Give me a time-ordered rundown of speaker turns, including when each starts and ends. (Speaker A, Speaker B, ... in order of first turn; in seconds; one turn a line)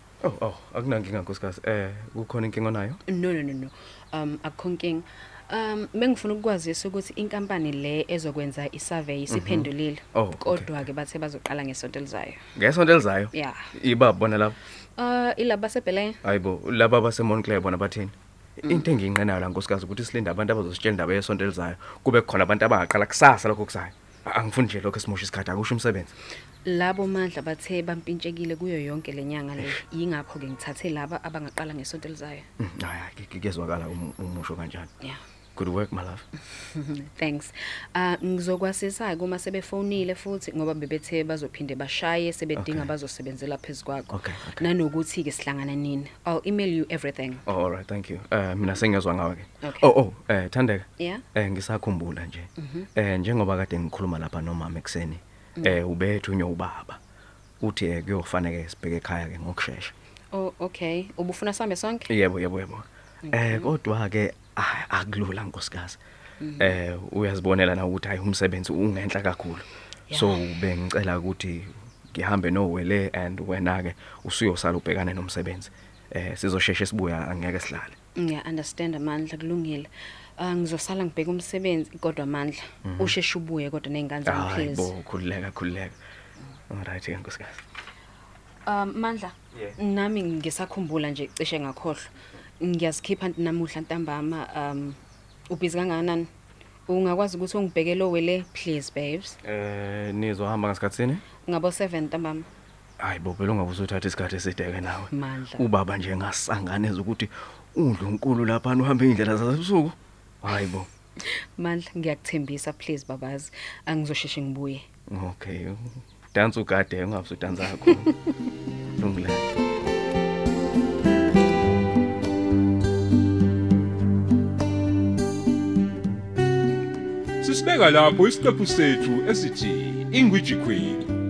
Speaker A: 0.2-3.0
Speaker B: 3.1-12.4
Speaker A: 9.3-10.7
Speaker A: 12.6-14.6
Speaker B: 13.3-13.6
Speaker B: 15.0-16.2
Speaker A: 16.2-26.1
Speaker B: 26.6-32.5
Speaker A: 32.6-34.9
Speaker A: 35.5-36.2
Speaker B: 36.7-47.4
Speaker A: 42.6-42.9
Speaker A: 44.1-44.7
Speaker A: 47.5-57.0
Speaker B: 49.6-49.9
Speaker B: 51.0-51.2
Speaker B: 52.6-52.9
Speaker A: 57.6-59.9
Speaker B: 60.3-62.1
Speaker A: 62.1-66.0
Speaker B: 63.3-63.7
Speaker B: 66.4-66.8
Speaker A: 66.6-78.0
Speaker B: 70.1-70.4
Speaker B: 78.2-84.9
Speaker A: 82.8-83.2
Speaker A: 84.2-86.0
Speaker A: 86.7-87.6
Speaker B: 88.7-92.0
Speaker A: 89.5-89.8
Speaker B: 92.6-95.0
Speaker B: 95.5-96.3
Speaker B: 96.9-99.4
Speaker A: 99.4-101.2
Speaker B: 101.5-102.5
Speaker A: 103.0-110.9
Speaker B: 105.1-105.7
Speaker B: 111.6-114.8
Speaker A: 115.1-118.2
Speaker A: 119.0-119.5
Speaker C: 127.4-131.1